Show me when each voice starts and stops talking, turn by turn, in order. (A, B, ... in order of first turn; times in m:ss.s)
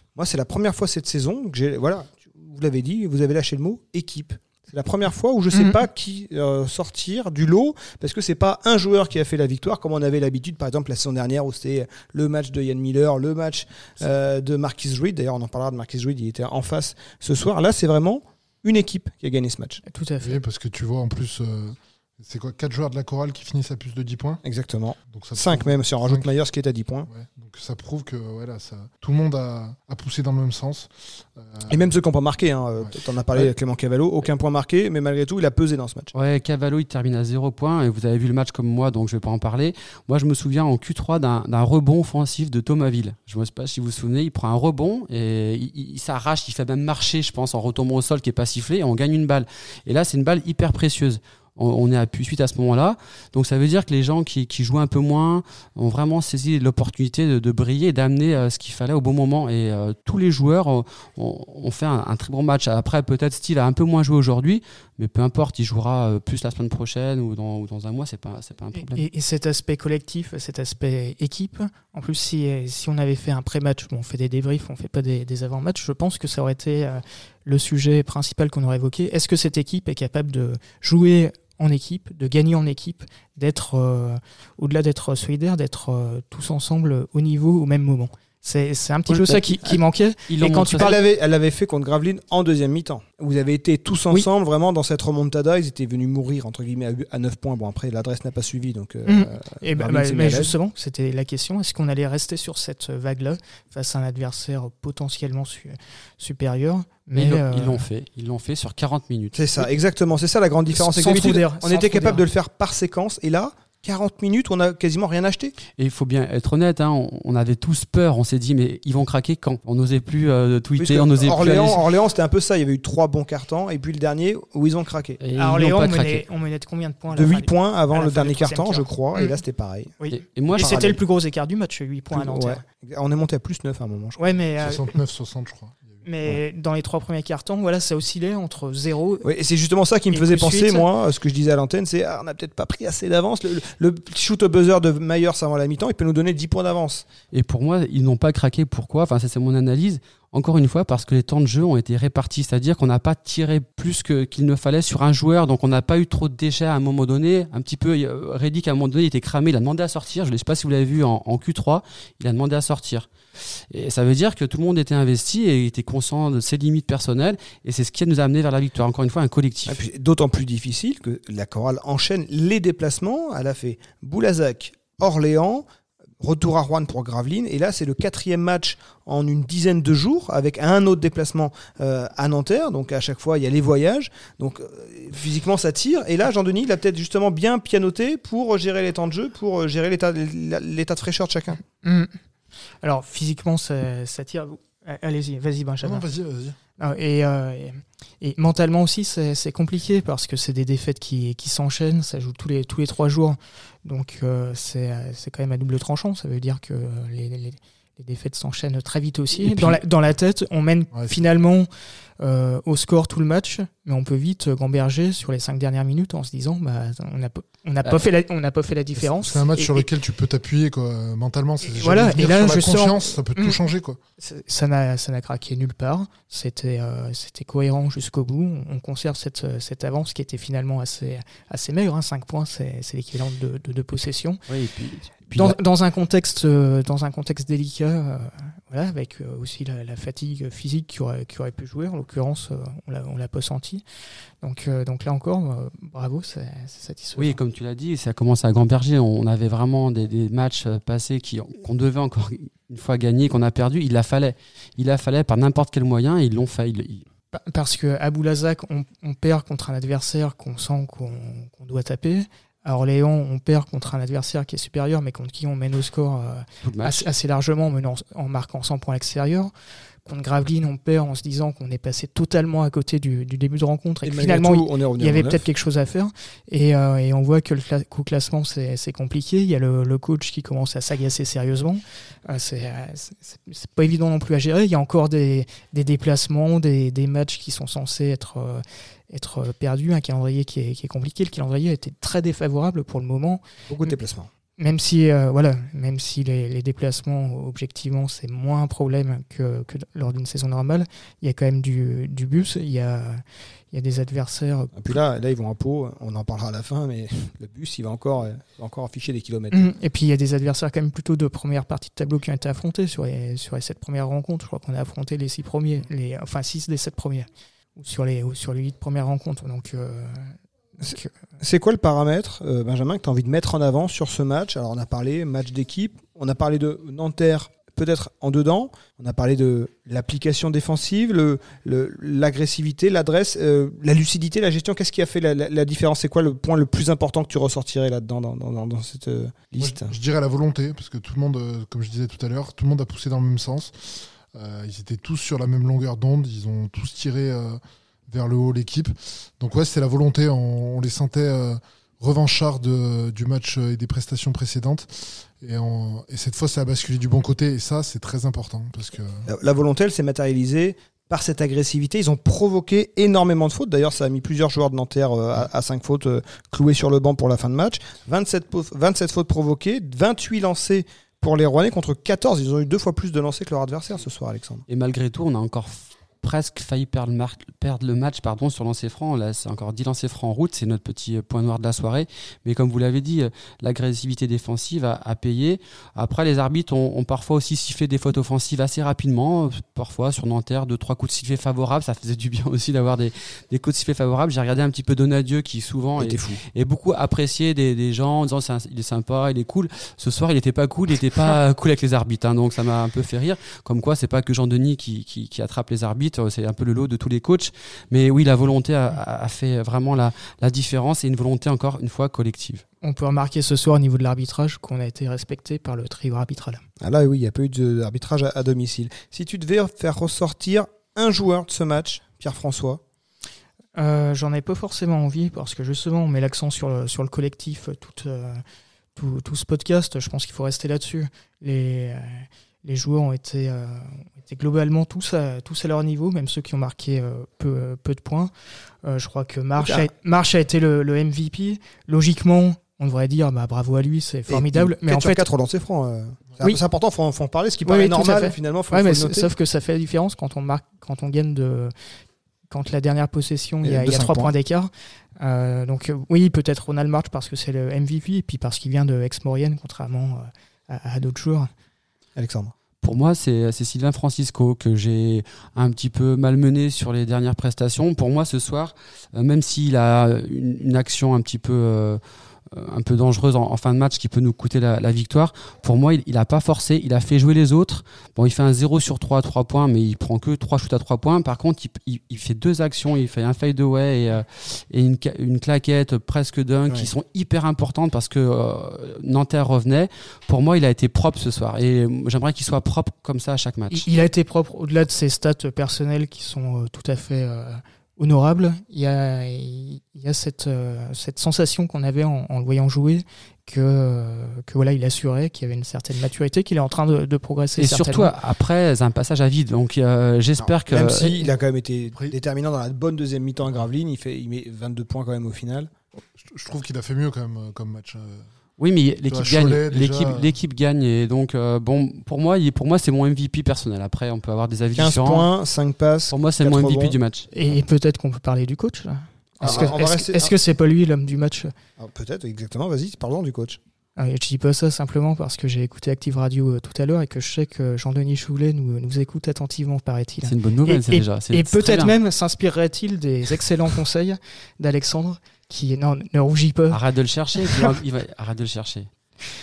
0:00.2-0:19.8 A
0:19.8-0:20.4 B
0:20.2-0:24.4 C
0:24.4-0:27.1 A
0:25.1-0:26.3 C
0:27.1-0:31.9 C
0:31.7-0:36.1 A
0:36.1-1:09.0 D
1:08.8-1:31.0 B
1:29.1-1:29.4 D
1:30.3-1:31.0 D
1:30.8-1:40.5 A
1:39.1-1:47.8 B
1:47.2-1:49.7 D
1:49.4-1:55.6 A
1:50.7-1:52.2 B
1:55.8-2:01.8 D
2:00.8-2:05.2 A
2:05.2-2:06.2 D
2:05.4-2:09.4 B
2:07.1-2:09.9 A
2:10.0-2:12.6 B
2:10.1-2:10.9 D
2:10.6-2:11.0 A
2:12.1-2:14.2 A
2:14.2-2:14.9 B
2:14.6-2:16.0 C
2:16.0-2:19.3 B
2:19.2-2:27.1 A
2:20.1-2:20.9 B
2:27.3-2:49.8 D
2:49.7-2:55.6 A
2:56.2-3:11.6 A
3:11.8-3:12.1 B
3:12.8-3:16.1 B
3:15.8-3:16.6 C
3:16.8-3:31.7 B
3:29.4-3:29.7 C
3:30.9-3:31.2 C
3:32.2-3:39.9 B
3:39.0-3:44.0 C
3:41.6-3:43.6 B
3:44.2-3:54.4 B
3:54.5-3:55.6 D
3:55.3-4:03.8 B
4:04.4-4:07.4 B
4:07.2-4:17.1 D
4:17.3-4:29.5 B
4:26.6-4:27.1 D
4:30.0-4:54.0 B
4:34.0-4:35.4 A
4:53.7-4:54.3 A
4:54.6-5:05.0 B
5:04.7-5:09.7 A
5:09.5-5:21.1 B
5:20.9-5:39.9 A
5:39.6-5:59.3 C
5:59.3-6:14.6 A
6:14.7-6:52.6 D
6:36.0-6:36.4 A
6:52.8-6:56.6 B
6:56.8-7:02.8 A
7:03.8-7:08.4 B
7:09.0-7:18.3 B
7:18.8-7:25.3 B
7:19.6-7:19.9 A
7:24.3-7:29.3 A
7:27.6-7:31.7 B
7:32.5-7:41.5 B
7:33.6-7:34.3 A
7:42.2-7:42.5 A
7:42.8-7:52.0 D
7:52.5-8:13.9 D
8:13.7-8:28.1 B
8:27.6-8:31.3 D
8:30.4-8:35.7 A
8:36.2-8:38.2 C
8:38.6-8:45.3 D
8:39.1-8:40.3 C
8:44.8-8:47.0 A
8:46.1-8:47.3 D
8:47.3-8:51.5 B
8:49.4-8:50.3 A
8:51.8-8:53.6 A
8:54.0-9:06.8 B
9:00.2-9:01.9 D
9:06.7-9:08.9 D